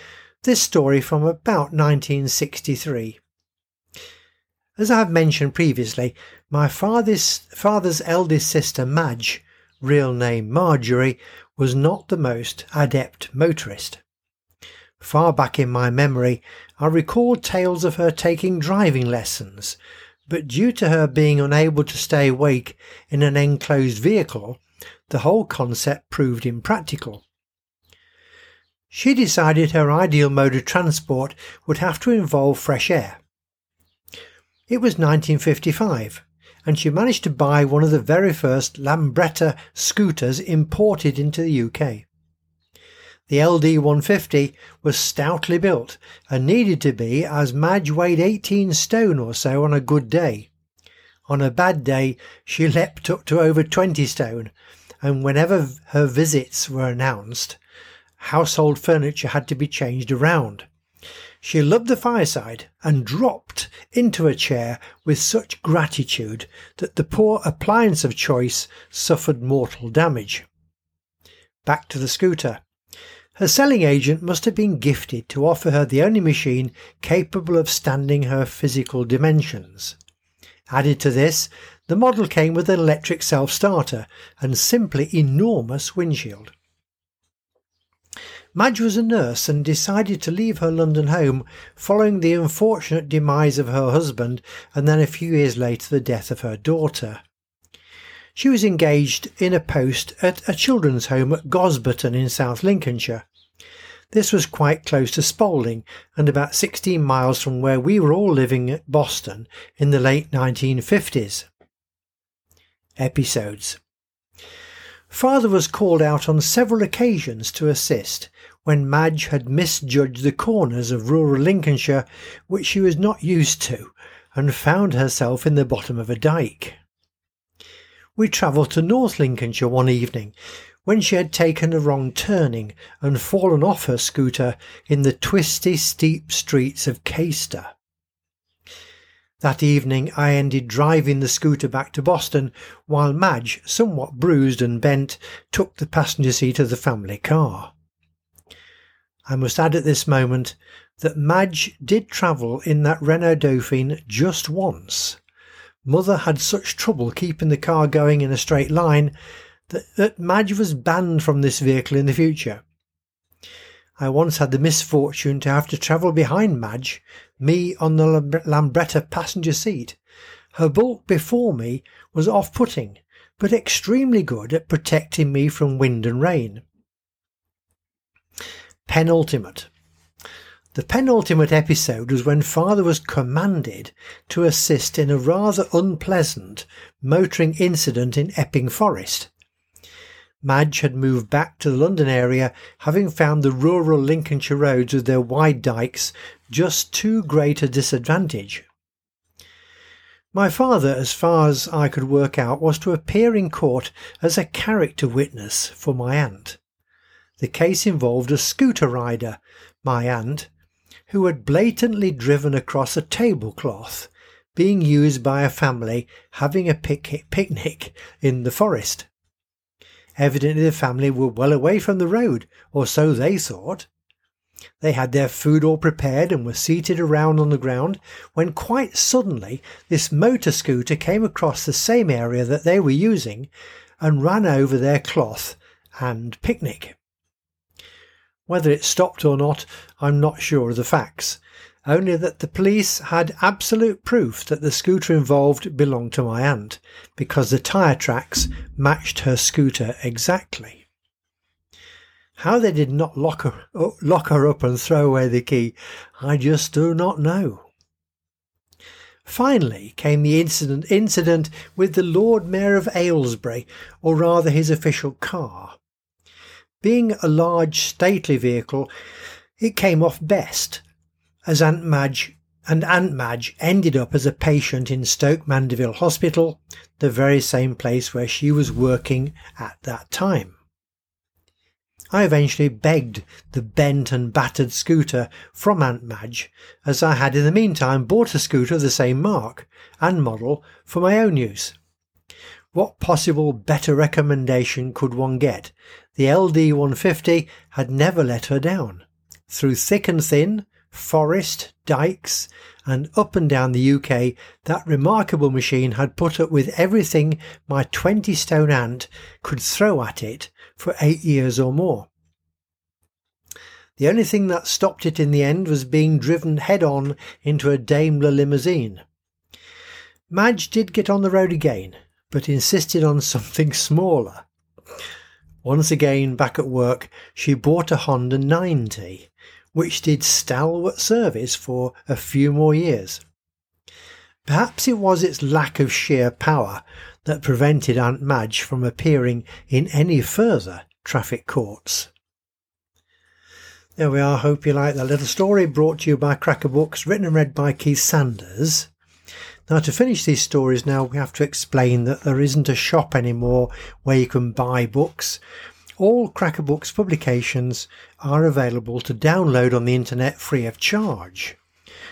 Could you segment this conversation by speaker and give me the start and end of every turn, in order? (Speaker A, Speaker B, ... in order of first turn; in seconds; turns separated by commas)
Speaker A: 0.4-3.2, Speaker A: 4.8-14.0, Speaker A: 15.0-27.2, Speaker A: 28.9-33.2, Speaker A: 34.7-42.0, Speaker A: 43.3-50.5, Speaker A: 51.3-54.5, Speaker A: 55.0-57.6, Speaker A: 58.2-60.7, Speaker A: 61.4-70.5, Speaker A: 71.6-72.6, Speaker A: 73.4-80.0, Speaker A: 80.7-86.5, Speaker A: 88.5-97.2, Speaker A: 98.3-103.2, Speaker A: 104.1-111.5, Speaker A: 113.0-113.8, Speaker A: 115.1-126.8, Speaker A: 128.2-130.3, Speaker A: 130.8-137.7, Speaker A: 139.4-147.7, Speaker A: 149.3-155.2, Speaker A: 155.8-159.1, Speaker A: 159.7-162.6, Speaker A: 164.0-170.0, Speaker A: 170.5-176.6, Speaker A: 178.9-179.7, Speaker A: 180.7-189.3, Speaker A: 190.4-198.7, Speaker A: 200.3-206.6, Speaker A: 207.4-210.5, Speaker A: 211.1-219.1, Speaker A: 220.2-223.9, Speaker A: 224.8-233.5, Speaker A: 234.0-236.9, Speaker A: 238.5-250.8, Speaker A: 252.4-257.7, Speaker A: 259.2-265.8, Speaker A: 266.8-268.9, Speaker A: 269.6-270.8, Speaker A: 271.5-280.5, Speaker A: 282.1-291.7, Speaker A: 292.7-312.1, Speaker A: 314.0-319.0, Speaker A: 320.3-324.4, Speaker A: 325.6-333.2, Speaker A: 334.4-342.1, Speaker A: 344.0-348.9, Speaker A: 349.7-355.4, Speaker A: 356.0-361.6